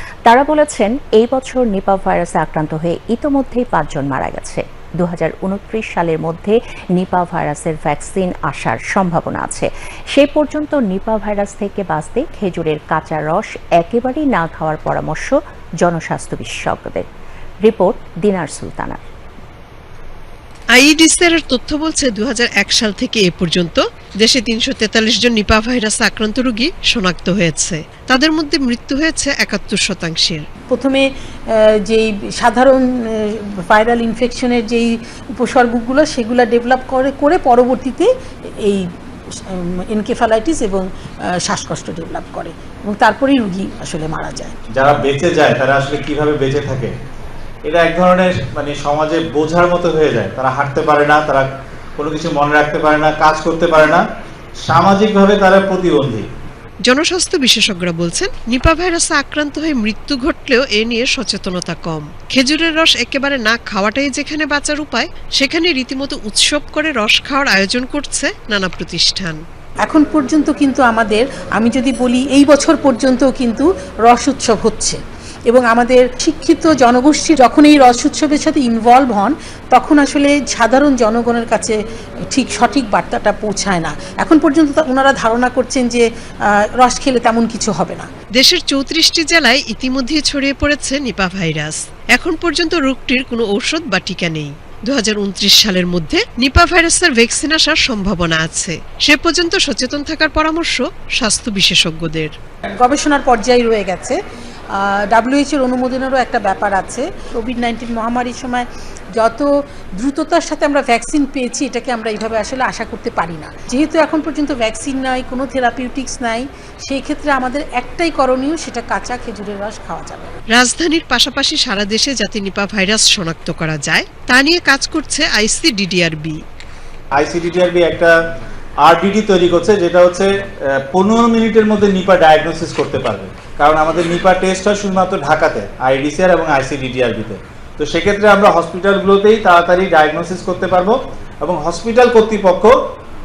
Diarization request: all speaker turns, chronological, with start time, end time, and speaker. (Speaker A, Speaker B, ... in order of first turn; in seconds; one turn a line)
Speaker A: 0.3-17.1
Speaker A: 17.6-19.0
Speaker B: 20.8-30.4
Speaker C: 30.7-38.1
Speaker C: 38.6-44.5
Speaker D: 44.7-46.9
Speaker D: 47.7-54.0
Speaker D: 54.6-56.3
Speaker B: 56.9-69.4
Speaker C: 69.8-88.1
Speaker B: 88.4-102.3
Speaker C: 102.8-104.2
Speaker C: 104.7-120.3
Speaker B: 120.5-126.4
Speaker D: 127.1-128.2
Speaker D: 128.8-142.8